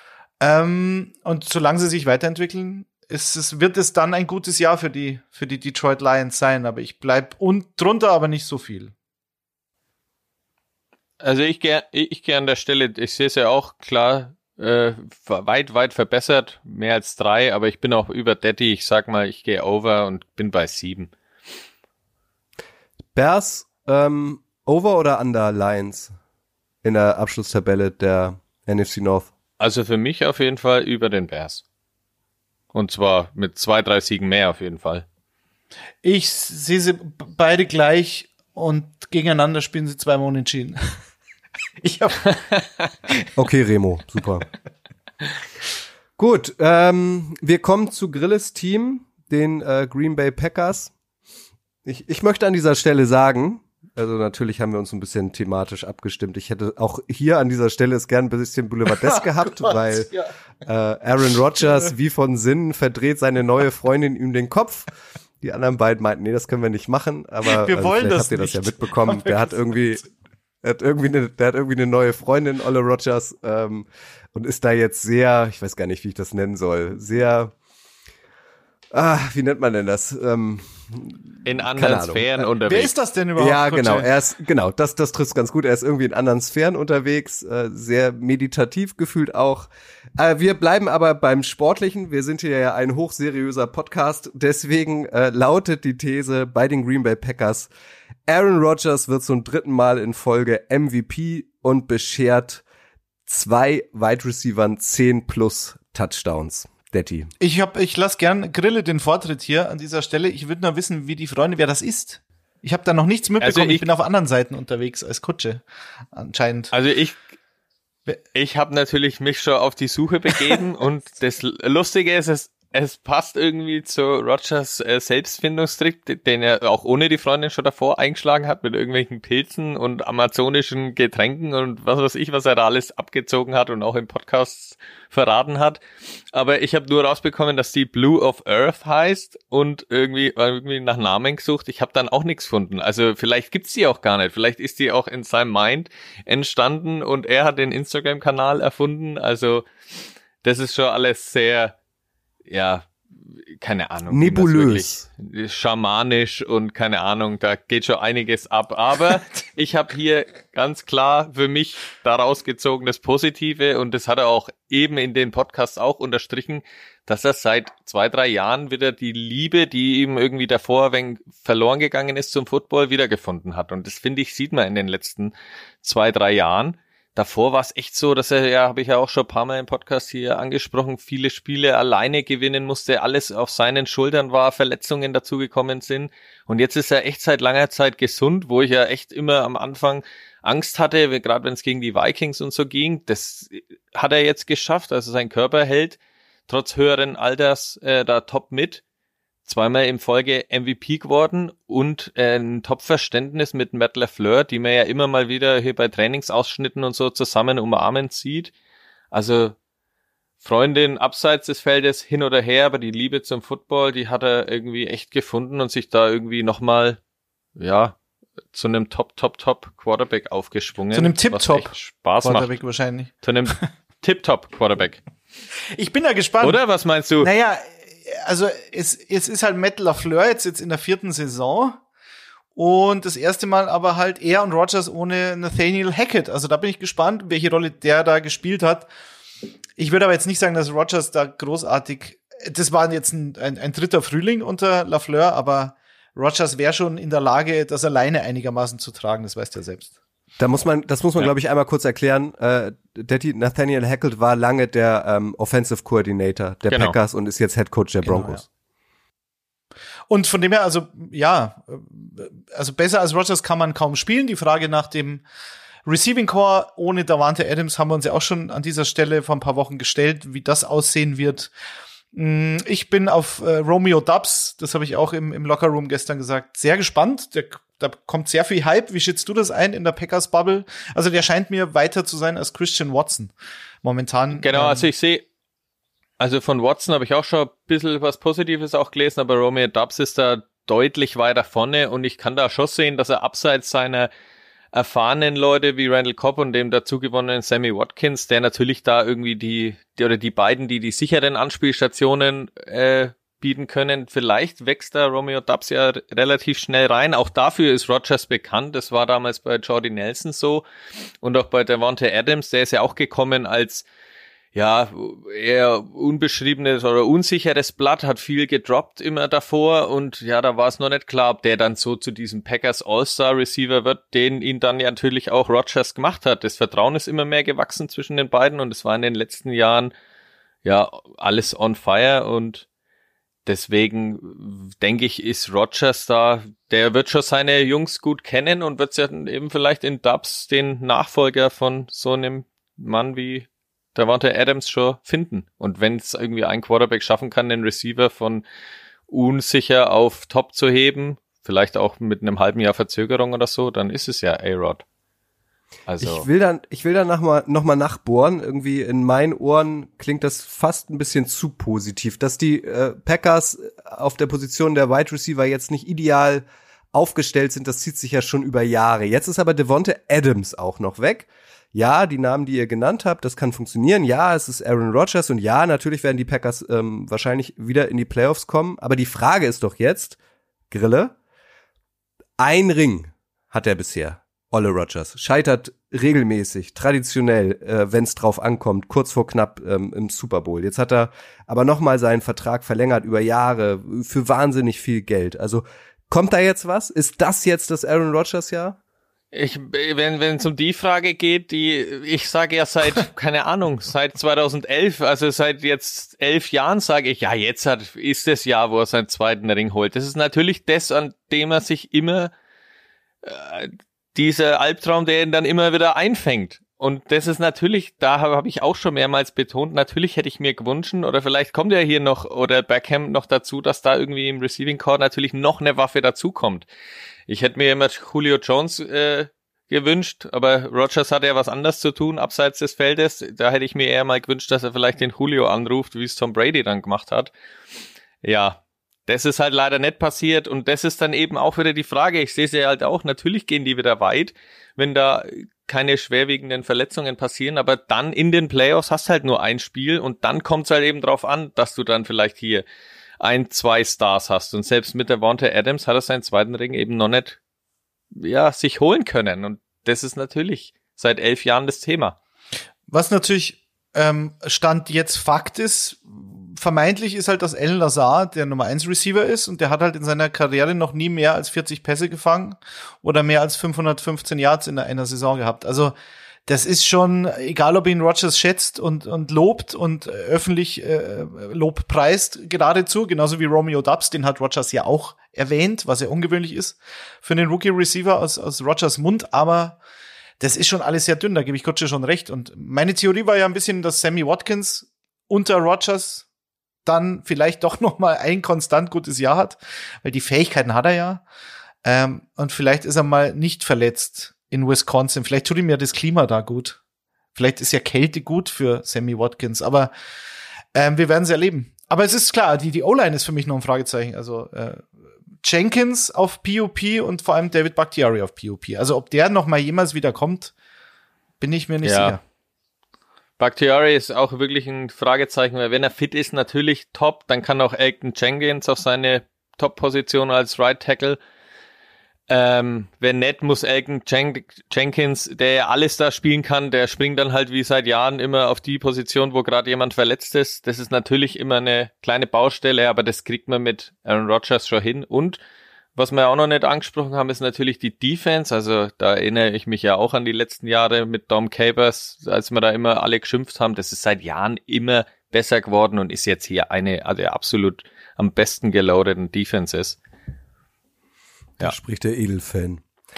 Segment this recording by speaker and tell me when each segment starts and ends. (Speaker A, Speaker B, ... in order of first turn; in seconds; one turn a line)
Speaker A: 0.4-8.9
Speaker B: 11.2-21.1
Speaker C: 23.1-26.1
Speaker C: 26.8-29.3
Speaker B: 29.6-31.6
Speaker B: 32.7-35.0
Speaker A: 36.0-40.9
Speaker A: 41.8-42.6
Speaker C: 43.4-44.5
Speaker C: 46.2-50.9
Speaker C: 51.8-60.1
Speaker A: 59.0-60.3
Speaker C: 60.6-64.9
Speaker C: 65.4-70.0
Speaker A: 67.5-70.0
Speaker C: 70.6-77.5
Speaker C: 78.9-81.2
Speaker B: 81.4-82.9
Speaker C: 81.7-82.5
Speaker A: 82.7-84.1
Speaker C: 83.4-97.7
Speaker C: 98.2-102.6
Speaker C: 103.3-107.3
Speaker A: 107.4-116.7
Speaker B: 113.4-113.8
Speaker B: 116.7-117.2
Speaker B: 118.3-135.8
Speaker B: 136.3-149.7
Speaker B: 150.4-151.7
Speaker B: 152.5-152.9
Speaker B: 153.6-198.8
Speaker C: 154.1-155.1
Speaker B: 199.4-208.5
Speaker B: 209.1-209.6
Speaker B: 210.4-217.0
Speaker B: 217.6-217.9
Speaker B: 218.5-222.5
Speaker A: 220.9-223.6
Speaker B: 223.2-225.0
Speaker A: 225.7-226.6
Speaker B: 226.4-227.3
Speaker A: 227.2-231.8
Speaker A: 232.6-238.9
Speaker A: 239.8-249.9
Speaker C: 250.4-258.4
Speaker B: 256.7-256.9
Speaker A: 258.0-258.4
Speaker A: 260.1-265.2
Speaker A: 265.9-271.5
Speaker A: 272.1-284.9
Speaker B: 284.3-285.2
Speaker B: 286.2-294.1
Speaker B: 294.7-310.6
Speaker B: 311.2-313.9
Speaker B: 314.5-329.9
Speaker B: 330.6-332.6
Speaker B: 333.4-348.4
Speaker B: 349.1-354.8
Speaker B: 355.9-356.2
Speaker C: 356.0-380.2
Speaker C: 380.7-381.1
Speaker C: 382.4-398.8
Speaker B: 399.3-412.3
Speaker B: 413.2-426.6
Speaker B: 427.3-437.3
Speaker B: 438.2-452.6
Speaker B: 453.2-457.4
Speaker B: 458.1-462.1
Speaker A: 462.9-475.9
Speaker A: 476.5-489.8
Speaker A: 490.4-496.2
Speaker A: 496.8-501.2
Speaker A: 501.8-506.8
Speaker A: 507.3-509.9
Speaker A: 510.7-514.9
Speaker A: 515.4-520.5
Speaker A: 521.4-522.2
Speaker B: 521.8-522.2
Speaker B: 523.4-531.2
Speaker B: 532.3-545.4
Speaker B: 545.9-560.0
Speaker C: 561.6-562.8